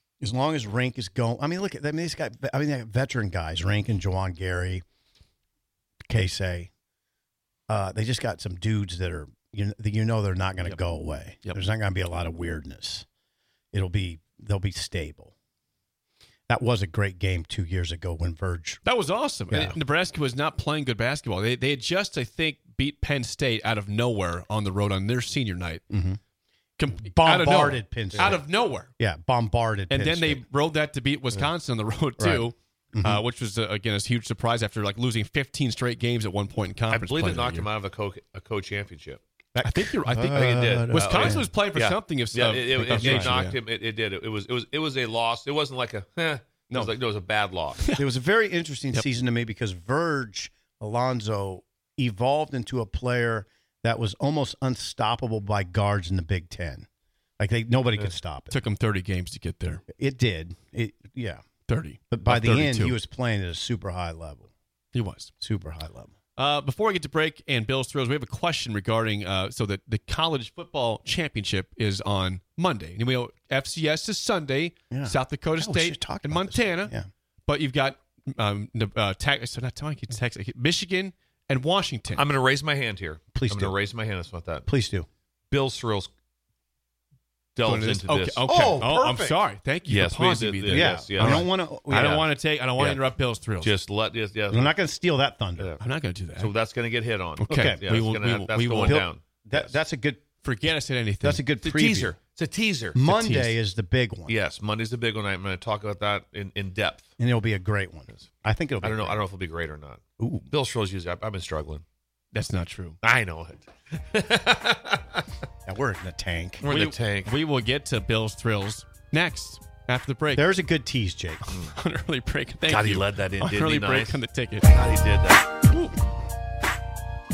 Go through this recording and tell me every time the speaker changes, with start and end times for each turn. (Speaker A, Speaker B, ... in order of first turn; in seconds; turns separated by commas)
Speaker A: 0.2-4.8, Speaker A: 6.1-6.7, Speaker A: 7.7-13.1, Speaker A: 13.7-15.3, Speaker A: 16.5-18.8, Speaker B: 18.8-25.8, Speaker A: 19.5-19.8, Speaker A: 25.9-26.2, Speaker B: 26.8-28.9, Speaker A: 26.9-30.4, Speaker B: 29.9-37.7, Speaker A: 32.2-33.2, Speaker C: 36.9-39.2, Speaker A: 39.5-41.5, Speaker B: 39.6-43.6, Speaker C: 40.3-47.8, Speaker A: 42.7-43.3, Speaker A: 48.0-56.9, Speaker A: 57.4-58.5, Speaker B: 58.5-59.8, Speaker A: 59.9-61.4, Speaker B: 61.7-63.0, Speaker A: 62.1-64.5, Speaker B: 64.9-65.3, Speaker A: 65.4-66.1, Speaker B: 66.4-76.9, Speaker A: 74.9-77.1, Speaker B: 77.5-82.2, Speaker C: 82.2-84.7, Speaker A: 83.3-83.8, Speaker A: 84.7-85.1, Speaker C: 85.5-86.1, Speaker C: 87.5-88.8, Speaker B: 87.6-93.7, Speaker A: 88.5-89.4, Speaker C: 89.8-93.0, Speaker A: 90.7-92.2, Speaker C: 93.6-94.8, Speaker A: 94.5-95.7, Speaker B: 95.8-96.5, Speaker C: 96.4-99.7, Speaker B: 97.4-99.0, Speaker A: 97.5-97.8, Speaker A: 98.8-100.2, Speaker B: 100.4-101.5, Speaker A: 101.2-102.1, Speaker C: 101.6-103.0, Speaker A: 102.9-104.3, Speaker B: 103.0-103.5, Speaker C: 104.3-107.1, Speaker A: 107.2-109.2, Speaker C: 108.8-111.8, Speaker A: 110.2-110.5, Speaker B: 112.3-113.0, Speaker C: 113.0-115.2, Speaker A: 115.7-116.7, Speaker C: 116.6-117.3, Speaker B: 116.7-120.5, Speaker A: 120.3-121.4, Speaker B: 121.5-124.7, Speaker C: 122.7-125.5